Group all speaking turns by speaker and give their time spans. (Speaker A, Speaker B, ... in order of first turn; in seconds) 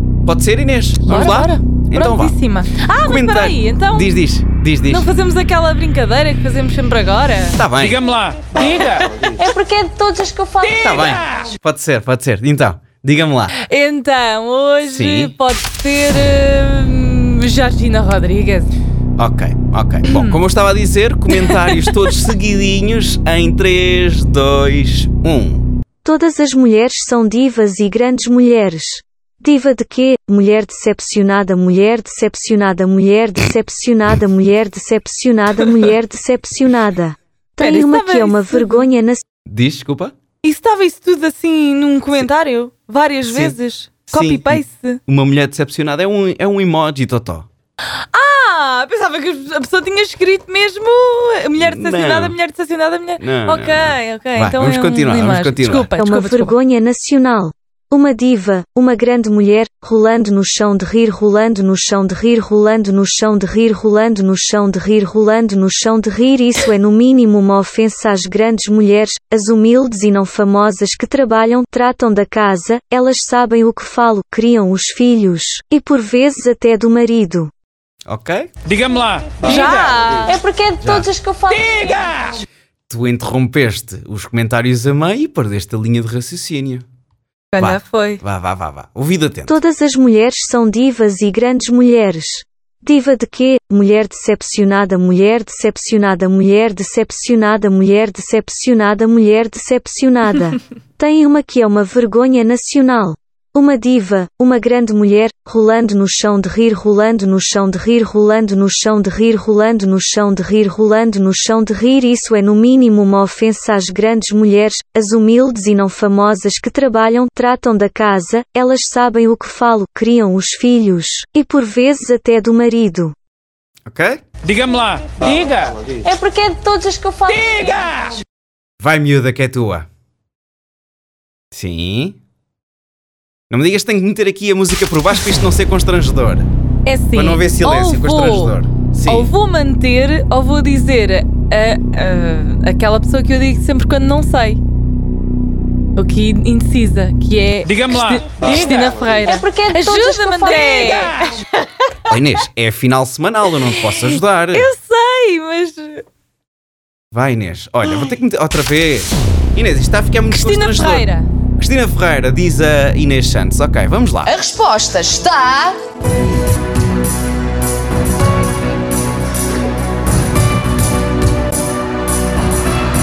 Speaker A: 0.3-2.4, 3.0-5.1, 7.5-8.2, 10.8-13.6, 14.8-15.3, 19.2-25.7, 39.5-40.1, 43.2-43.6, 44.1-47.5, 51.6-52.4, 53.2-55.9, 78.1-78.5, 80.8-81.1, 82.9-86.8, 87.6-89.5, 123.9-124.2, 128.8-129.9, 131.5-132.2, 133.5-136.5, 137.1-139.3, 152.1-154.7, 157.1-161.1, 161.6-164.4
Speaker B: 1.0-4.1, 4.9-7.6, 13.6-18.7, 20.1-20.4, 21.3-22.1, 37.6-38.9, 40.4-45.0, 47.9-56.5, 79.4-80.4, 87.5-88.2, 136.8-144.6, 146.0-151.7, 153.6-156.0, 160.3-161.3
Speaker C: 7.9-9.0, 78.7-79.3, 124.5-125.8
Speaker D: 9.2-10.8, 80.3-82.1, 125.9-128.0, 164.3-165.8
Speaker E: 26.0-39.2, 56.0-77.5, 89.5-123.1, 149.3-151.0